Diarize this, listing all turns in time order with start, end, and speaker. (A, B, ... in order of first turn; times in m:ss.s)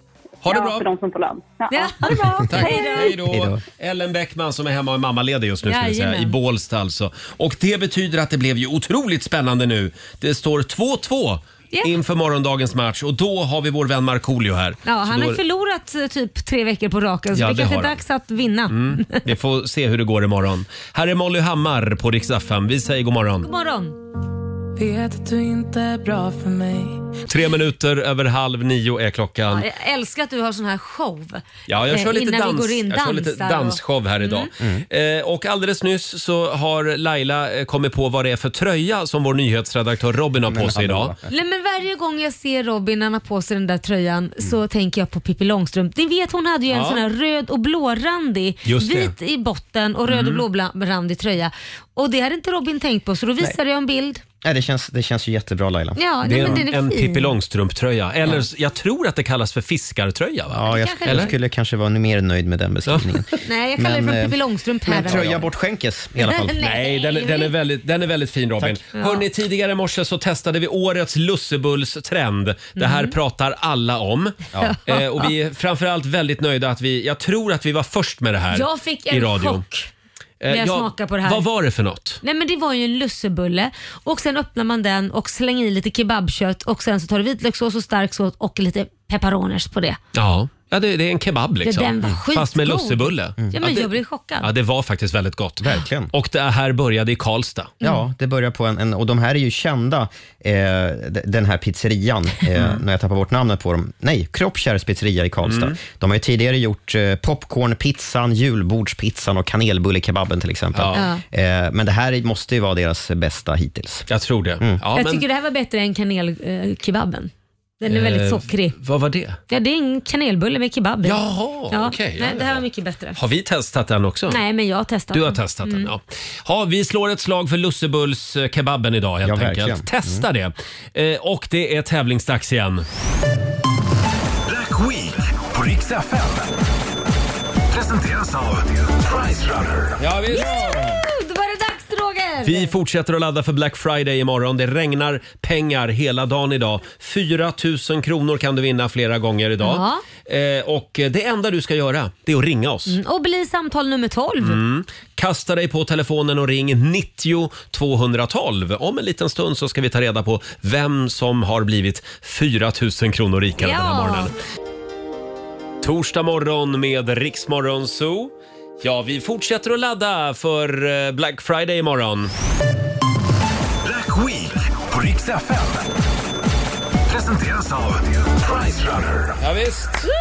0:00.4-0:00.9 A
0:00.4-0:02.8 B
0:01.7-0:03.2 C
0:02.4-0:15.4 A
0:03.3-0:03.6 D
0:05.6-0:06.4 C
0:14.9-0:19.2 C
0:17.3-0:18.0 A
0:18.7-0:23.5 A
0:23.4-0:24.0 C
0:24.8-0:27.2 E
0:27.3-0:29.7 A
0:29.5-0:34.5 C
0:31.7-0:41.1 A
0:34.6-0:34.9 D
0:40.4-0:41.2 D
0:41.3-0:54.2 C
0:46.7-0:47.0 A
0:48.6-0:49.1 A
0:50.1-0:50.4 A
0:54.4-0:56.6 D
0:56.0-0:57.4 C
0:56.2-1:01.3 A
1:00.5-1:06.6 D
1:00.7-1:01.4 C
1:03.4-1:05.5 C
1:05.0-1:05.4 A
1:06.2-1:07.5 C
1:06.6-1:19.6 A
1:09.0-1:09.2 C
1:12.8-1:13.2 C
1:14.6-1:15.3 C
1:18.5-1:19.9 C
1:20.4-1:22.2 A
1:20.5-1:21.5 C
1:22.2-1:30.0 C
1:30.1-1:37.8 A
1:31.6-1:34.5 C
1:35.6-1:36.1 D
1:37.8-1:54.1 D
1:45.4-1:45.8 A
1:50.7-1:51.0 A
1:50.9-1:51.2 C
1:54.1-1:55.2 A
1:55.0-1:58.7 C
1:57.9-1:59.4 A
1:59.5-2:03.2 C
2:01.0-2:02.6 A
2:03.1-2:04.4 A
2:04.3-2:05.9 C
2:05.1-2:12.9 A
2:09.2-2:10.2 D
2:14.4-2:16.6 F
2:17.7-2:20.1 F
2:20.0-2:21.0 A
2:20.3-2:22.7 C
2:22.4-2:33.0 A
2:29.6-2:30.0 C
2:32.9-2:34.6 C
2:34.4-2:44.4 A
2:43.6-2:44.3 C
2:45.8-2:52.3 A
2:53.8-2:56.0 F
2:57.1-2:59.4 F
2:59.4-3:00.1 A